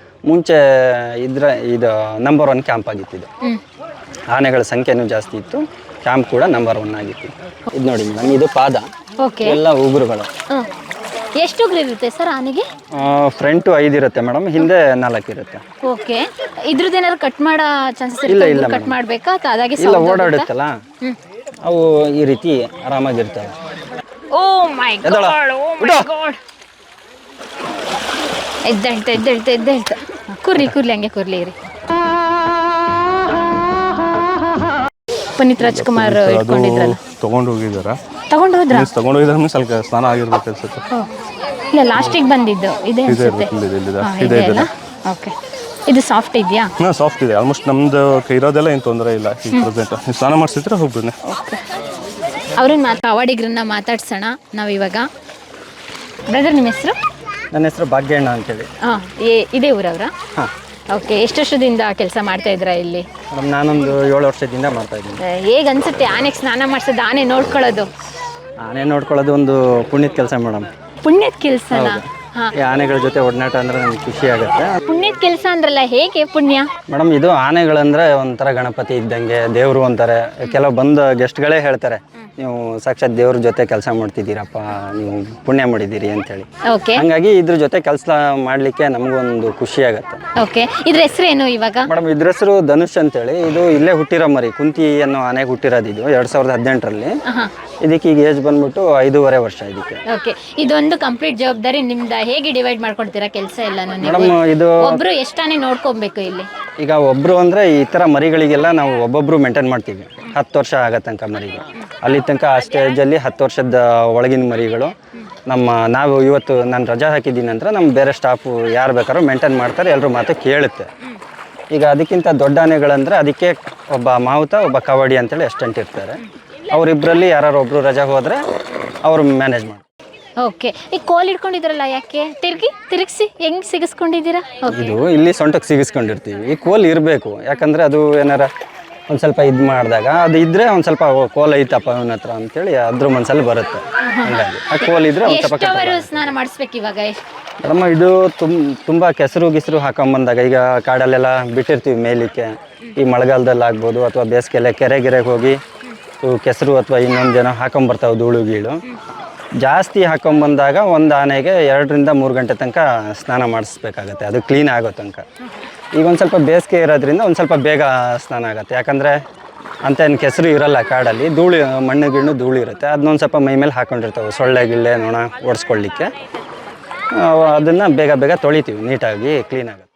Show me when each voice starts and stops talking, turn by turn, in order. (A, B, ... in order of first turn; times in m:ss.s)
0:00.3-0:03.3 A
0:04.3-0:08.9 A
0:09.2-0:09.6 B
0:09.4-0:10.3 A
0:11.4-0:12.7 B
0:12.9-0:15.6 A
0:15.8-0:20.5 B
0:18.3-0:19.0 A
0:19.8-0:20.8 A
0:21.6-0:23.5 A
0:24.3-0:26.4 B
0:25.0-0:26.1 A
0:28.6-0:31.6 B
0:35.4-0:37.0 B
0:35.6-0:38.0 C
0:38.3-0:38.9 B
0:38.7-0:40.9 C
0:41.7-0:45.4 B
0:43.1-0:44.7 C
0:45.9-0:46.7 B
0:46.8-0:51.2 C
0:51.2-0:51.6 B
0:52.5-0:55.1 B
0:56.3-0:57.0 B
0:57.5-0:58.7 A
0:58.8-1:00.1 B
1:00.9-1:03.1 B
1:03.3-1:05.2 A
1:05.2-1:07.9 B
1:08.6-1:10.7 A
1:11.0-1:12.5 B
1:11.7-1:14.8 A
1:14.9-1:16.7 B
1:16.9-1:30.2 A
1:26.6-1:27.0 B
1:30.4-1:31.9 B
1:31.8-1:37.2 A
1:37.2-1:37.5 B
1:37.8-1:40.0 A
1:40.1-1:46.5 B
1:44.0-1:45.0 A
1:46.8-1:55.0 A
1:55.5-2:00.9 A
2:01.7-2:08.4 A
2:09.0-2:09.8 A
2:10.4-2:15.0 B
2:14.7-2:18.5 A
2:19.1-2:26.3 A
2:24.0-2:27.2 B
2:27.6-2:35.6 A
2:36.2-2:38.8 A
2:39.6-2:45.3 A
2:45.9-2:49.2 A
2:49.8-2:56.1 A
2:57.1-2:59.9 A